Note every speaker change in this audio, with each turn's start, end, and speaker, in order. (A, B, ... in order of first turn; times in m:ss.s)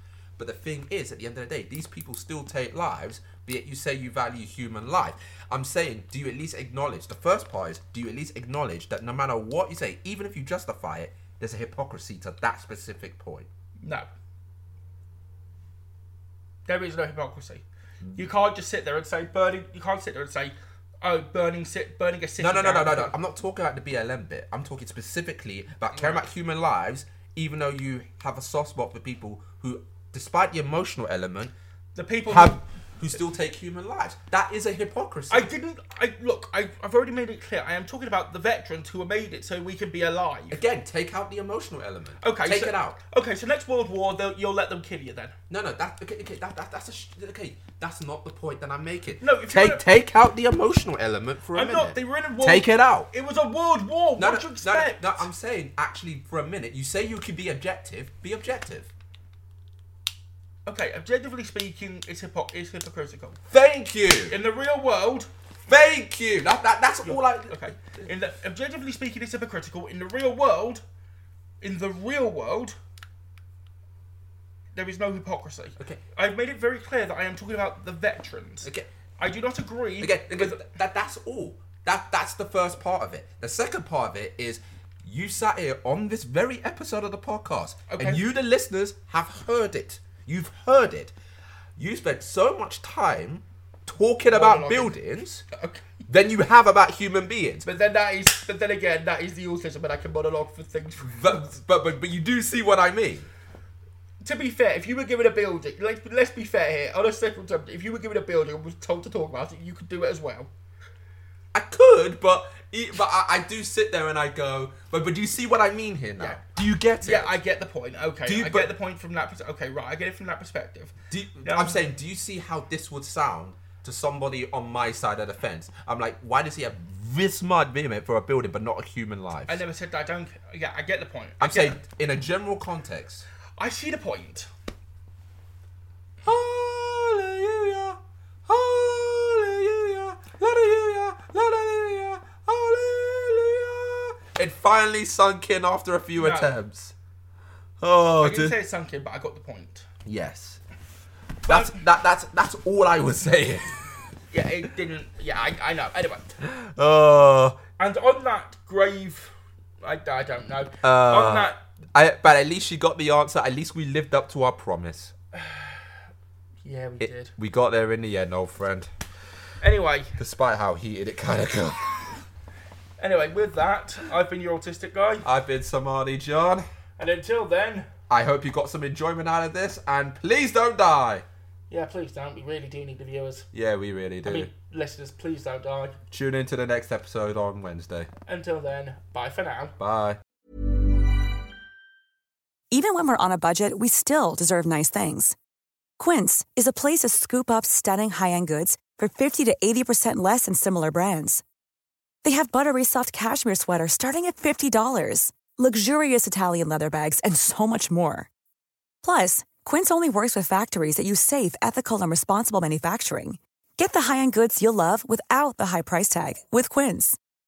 0:00.4-0:13.5 A
0:13.8-0:14.1 B
0:16.6-0:17.6 B
0:18.1-0:23.1 B
0:22.4-0:31.5 A
0:25.9-0:26.2 B
0:31.9-0:32.6 B
0:32.3-0:35.5 A
0:35.3-0:40.6 B
0:40.5-0:43.0 A
0:42.2-0:45.4 B
0:45.5-0:53.1 A
0:49.2-0:49.9 B
0:51.5-0:55.3 B
0:54.2-0:58.9 A
1:00.6-1:03.4 B
1:03.5-1:04.4 A
1:04.3-1:05.3 B
1:05.7-1:08.1 A
1:07.0-1:10.8 B
1:11.6-1:12.8 B
1:14.7-1:20.6 B
1:18.6-1:18.9 A
1:20.0-1:31.1 A
1:27.9-1:28.2 B
1:31.8-1:35.4 A
1:34.3-1:36.0 B
1:36.1-1:37.7 A
1:37.6-1:41.5 B
1:41.0-1:43.3 A
1:44.2-1:50.5 B
1:51.5-1:57.4 A
1:57.0-2:01.8 B
1:58.2-1:58.7 A
2:01.1-2:09.6 A
2:09.5-2:11.8 B
2:11.4-2:13.2 A
2:13.6-2:14.5 B
2:16.2-2:26.9 A
2:26.2-2:26.6 B
2:27.8-2:28.6 A
2:28.2-2:29.9 B
2:30.0-2:30.6 A
2:31.4-2:31.8 B
2:31.4-2:34.0 A
2:34.3-2:36.3 B
2:36.4-2:37.6 A
2:37.8-2:41.6 B
2:40.8-2:45.1 A
2:45.3-2:45.9 B
2:46.6-2:47.3 B
2:47.0-2:48.9 A
2:49.6-2:50.2 B
2:50.2-2:52.2 A
2:53.0-2:55.3 B
2:55.2-2:56.6 A
2:57.0-2:57.9 B
2:58.1-3:01.2 A
3:01.7-3:03.5 B
3:03.5-3:04.5 A
3:04.2-3:06.0 B
3:06.1-3:08.1 A
3:08.3-3:09.7 B
3:09.8-3:10.2 A
3:12.7-3:15.4 C
3:16.0-3:21.4 C
3:22.2-3:28.3 C
3:29.0-3:37.2 C